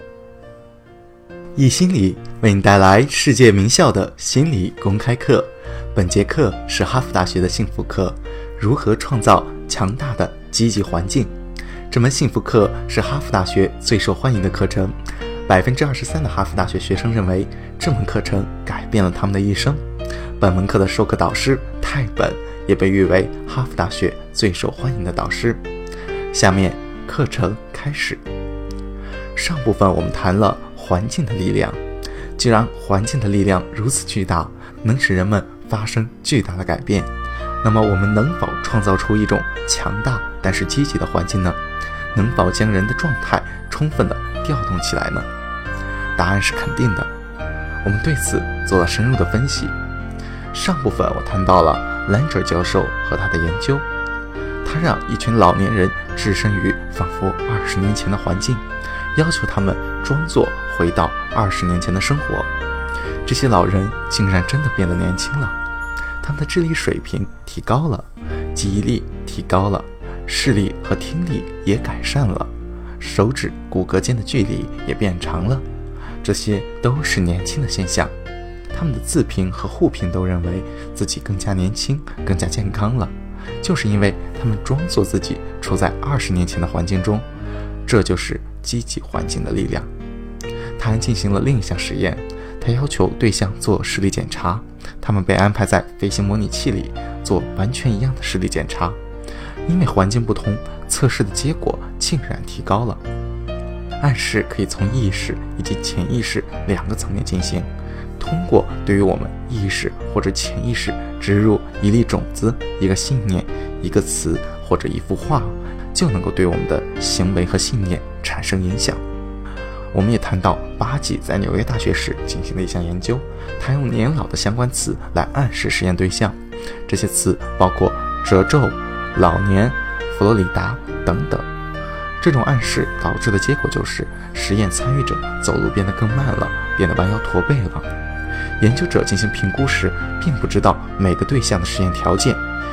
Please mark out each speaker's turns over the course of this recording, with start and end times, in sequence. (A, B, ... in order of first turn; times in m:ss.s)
0:01.6-0:11.3 A
0:11.9-0:19.8 A
0:20.4-0:25.6 A
0:26.3-0:28.2 A
0:29.4-0:31.8 A
0:32.4-0:37.1 A
0:37.6-0:41.6 A
0:42.1-0:45.3 A
0:46.2-0:47.1 A
0:47.8-0:49.7 A
0:50.5-0:53.8 A
0:54.6-0:58.6 A
0:59.1-1:02.5 A
1:03.2-1:05.6 A
1:06.2-1:15.6 A
1:16.2-1:18.1 A
1:18.7-1:27.2 A
1:27.8-1:29.9 A
1:30.8-1:39.0 A
1:39.6-1:43.0 A
1:44.0-1:59.0 A
1:59.9-2:11.5 A
2:12.2-2:17.9 A
2:18.6-2:22.4 A